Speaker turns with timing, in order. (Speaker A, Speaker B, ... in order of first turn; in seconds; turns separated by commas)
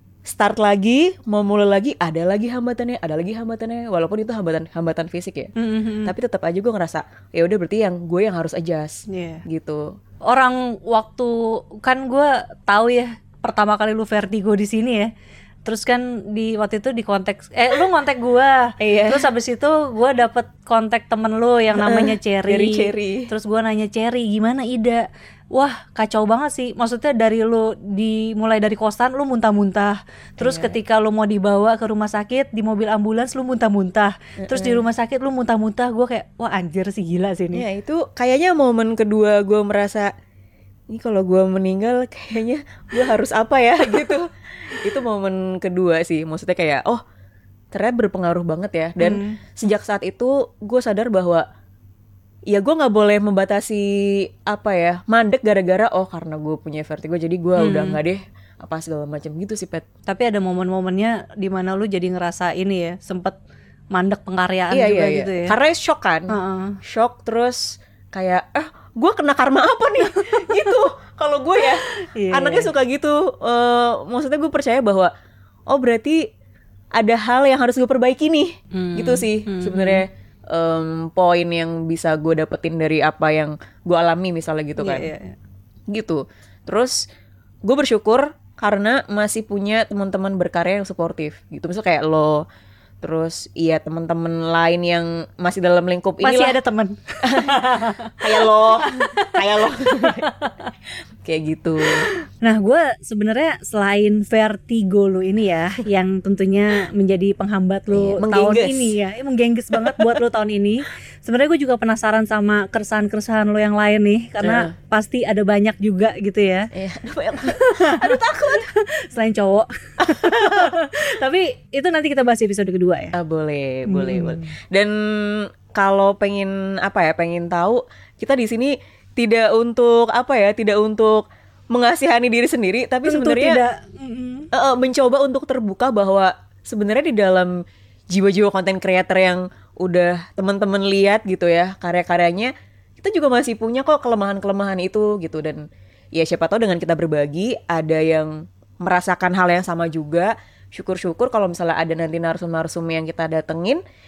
Speaker A: 0.2-5.5, Speaker B: 5.6-6.1, Speaker A: 6.1-9.9, Speaker B: 9.1-9.4, Speaker B: 10.3-15.1, Speaker B: 15.7-37.6, Speaker A: 18.8-19.3, Speaker A: 21.8-23.3, Speaker A: 30.4-30.8, Speaker A: 34.4-34.8, Speaker A: 37.5-40.1, Speaker A: 40.9-47.0, Speaker A: 47.7-51.5, Speaker B: 49.0-49.4, Speaker A: 52.5-59.8, Speaker B: 57.6-58.0, Speaker B: 60.1-63.4, Speaker B: 63.9-65.5, Speaker A: 64.7-66.3, Speaker B: 66.3-66.8, Speaker A: 66.8-75.1, Speaker B: 71.9-72.7, Speaker A: 75.7-76.2, Speaker A: 77.0-85.1, Speaker B: 78.7-80.0, Speaker B: 84.8-85.4, Speaker A: 85.9-87.0, Speaker A: 87.6-92.4, Speaker A: 93.0-96.6, Speaker B: 96.2-100.7, Speaker A: 97.2-100.3, Speaker A: 101.2-102.1, Speaker B: 101.9-116.7, Speaker A: 107.9-108.9, Speaker A: 109.7-110.1, Speaker A: 114.4-114.7, Speaker A: 116.7-118.7, Speaker B: 117.5-123.2, Speaker A: 120.0-120.7, Speaker A: 123.2-133.6, Speaker B: 123.9-124.5, Speaker B: 133.0-134.5, Speaker A: 134.5-137.5, Speaker A: 138.1-145.6, Speaker A: 146.2-153.8